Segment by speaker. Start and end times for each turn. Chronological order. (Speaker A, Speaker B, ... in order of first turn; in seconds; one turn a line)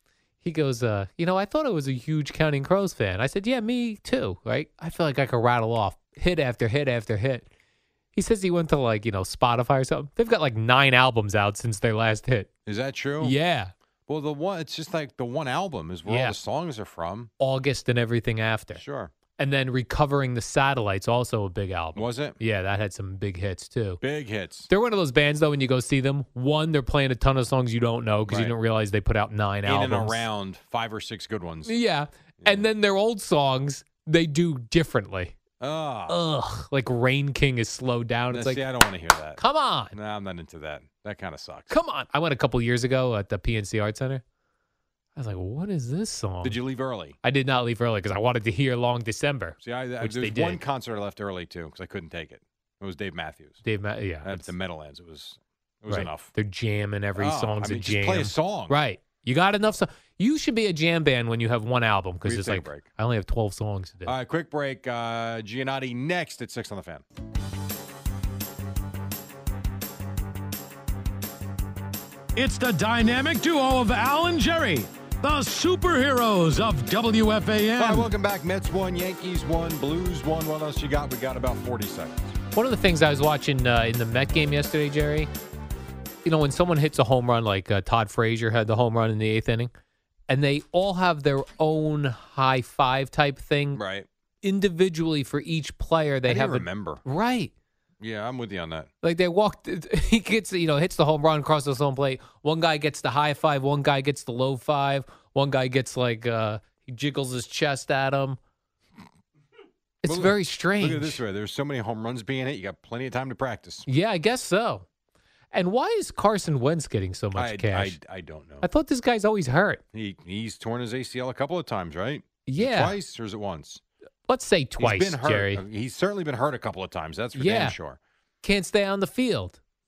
Speaker A: 0.4-7.5
Speaker A: 8.1-12.5
Speaker B: 12.7-13.3
Speaker A: 13.2-13.7
Speaker B: 14.1-17.3
Speaker A: 16.1-16.4
Speaker A: 17.4-18.8
Speaker B: 18.8-19.1
Speaker A: 19.4-24.0
Speaker B: 21.9-22.4
Speaker B: 24.0-24.7
Speaker A: 24.7-30.2
Speaker B: 28.2-28.5
Speaker B: 29.6-31.8
Speaker A: 31.6-35.3
Speaker B: 32.4-32.7
Speaker B: 35.6-36.2
Speaker A: 36.1-38.6
Speaker B: 38.3-39.4
Speaker A: 39.4-39.9
Speaker B: 39.9-41.8
Speaker A: 41.7-44.2
Speaker A: 45.1-46.6
Speaker B: 46.4-47.1
Speaker A: 47.2-50.6
Speaker B: 49.6-53.6
Speaker A: 53.6-54.5
Speaker B: 54.2-56.3
Speaker A: 55.9-64.1
Speaker B: 57.1-58.8
Speaker B: 62.2-62.9
Speaker B: 64.0-67.0
Speaker C: 72.3-78.1
Speaker B: 77.8-82.3
Speaker A: 82.5-85.3
Speaker A: 86.2-89.7
Speaker A: 90.3-93.8
Speaker B: 93.8-94.1
Speaker A: 94.4-97.5
Speaker B: 96.2-97.0
Speaker B: 98.0-98.9
Speaker A: 99.0-108.4
Speaker A: 110.0-111.2
Speaker B: 110.0-113.9
Speaker A: 113.9-114.8
Speaker A: 115.5-118.0
Speaker B: 117.3-118.7
Speaker A: 118.6-119.8
Speaker B: 119.9-123.8
Speaker A: 122.5-123.0
Speaker A: 124.3-125.6
Speaker B: 124.8-128.0
Speaker A: 127.3-127.8
Speaker A: 128.4-129.6